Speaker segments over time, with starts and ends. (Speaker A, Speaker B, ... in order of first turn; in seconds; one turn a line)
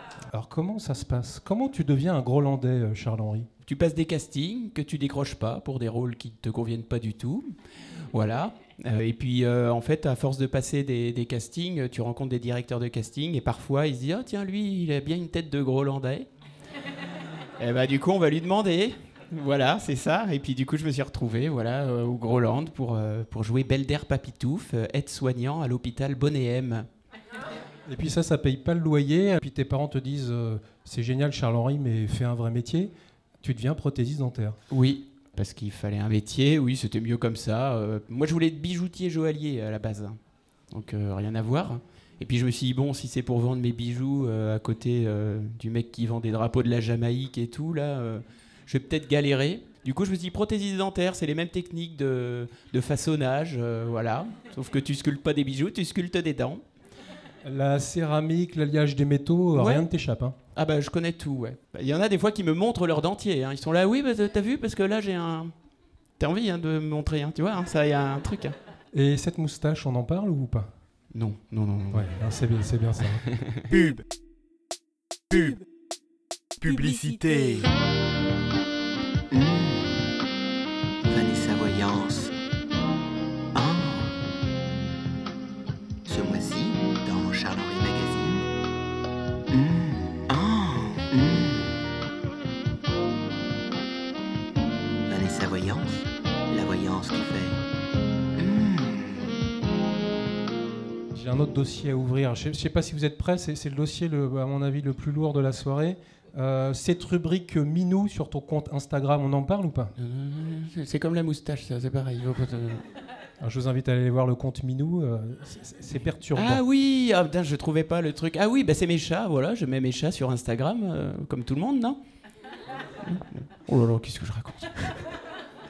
Speaker A: 0.3-3.5
Speaker B: 3.7-7.5
Speaker B: 8.1-16.3
Speaker B: 17.6-26.9
Speaker A: 27.9-34.6
Speaker B: 34.7-40.2
Speaker B: 40.7-56.6
Speaker A: 57.5-60.4
Speaker B: 59.5-59.8
Speaker B: 60.6-65.5
Speaker B: 66.2-68.6
Speaker A: 68.9-70.7
Speaker B: 71.1-72.1
Speaker A: 71.9-73.3
Speaker B: 73.2-73.8
Speaker C: 79.3-80.1
Speaker C: 81.1-82.3
Speaker C: 83.5-84.2
Speaker C: 86.1-88.5
Speaker C: 89.5-91.8
Speaker C: 95.1-97.6
Speaker C: 98.3-99.3
Speaker A: 101.1-109.9
Speaker B: 110.0-112.8
Speaker A: 113.4-116.6
Speaker B: 116.4-122.0
Speaker B: 123.0-125.0